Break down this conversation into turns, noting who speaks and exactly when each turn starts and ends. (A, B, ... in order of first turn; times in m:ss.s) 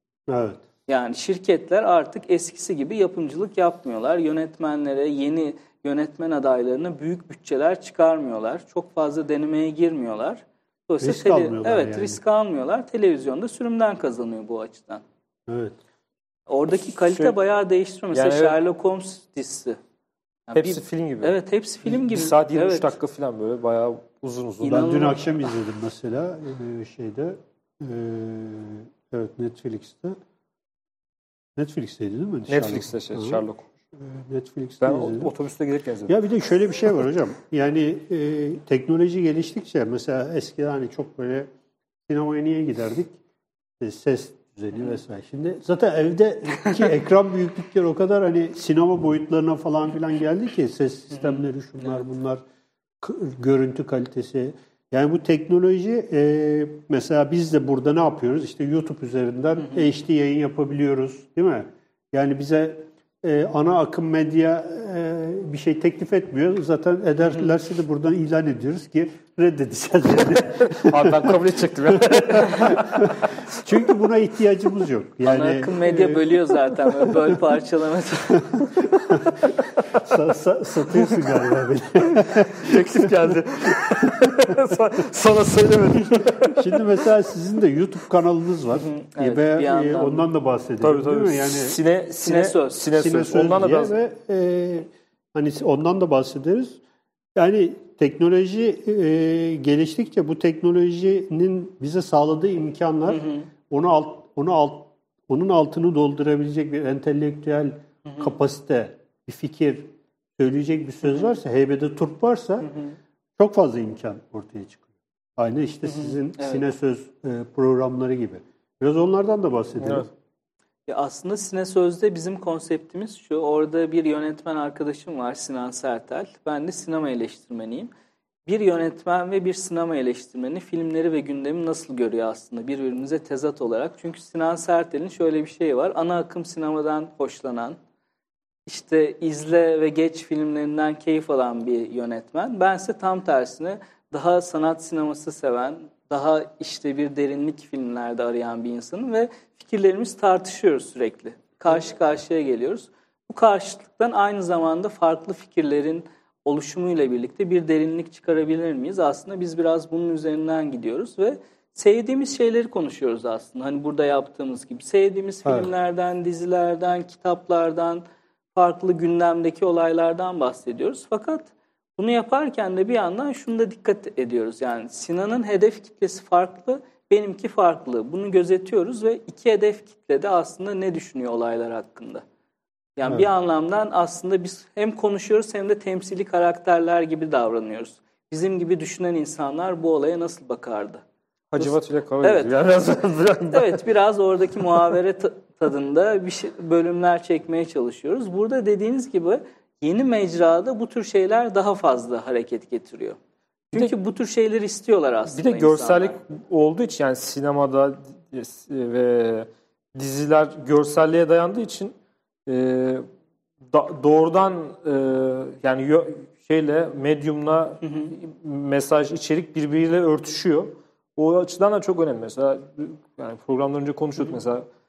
0:00.3-0:00.6 A
0:00.9-0:15.0 B
0:11.0-0:12.2 A
0:15.5-0:15.8 A
0:16.5-0:19.8 B
0:18.1-0:18.6 C
0:20.5-0:22.9 B
0:20.6-0:25.0 C
0:24.6-0:25.4 B
0:24.7-0:30.2 A
0:31.6-0:33.4 A
0:32.5-0:33.7 C
0:34.0-0:35.3 A
0:34.8-0:36.1 C
0:36.1-0:41.5 A
0:42.1-0:43.2 A
0:43.8-0:52.4 A
0:51.2-0:52.0 B
0:53.0-1:11.4 A
1:10.7-1:13.4 C
1:11.9-1:16.3 A
1:15.2-1:18.6 B
1:18.4-1:23.4 A
1:22.2-1:26.6 C
1:24.0-1:24.5 A
1:26.4-1:31.8 A
1:28.8-1:30.3 B
1:30.8-1:33.9 C
1:32.2-1:32.8 B
1:32.9-1:36.8 A
1:37.4-1:52.8 A
1:43.1-1:43.5 B
1:52.7-1:53.0 B
1:53.4-1:54.8 A
1:55.4-2:00.1 A
1:55.9-1:56.6 B
1:59.8-2:00.1 C
2:00.9-2:07.9 B
2:08.5-2:17.8 B
2:18.7-2:48.0 B
2:48.6-3:02.2 B
3:03.0-3:11.0 B
3:11.5-3:13.8 C
3:11.6-3:12.6 B
3:13.5-3:23.2 B
3:23.7-3:26.2 B
3:25.3-3:32.0 C
3:32.5-3:33.1 C
3:33.7-3:44.7 C
3:37.8-3:38.1 B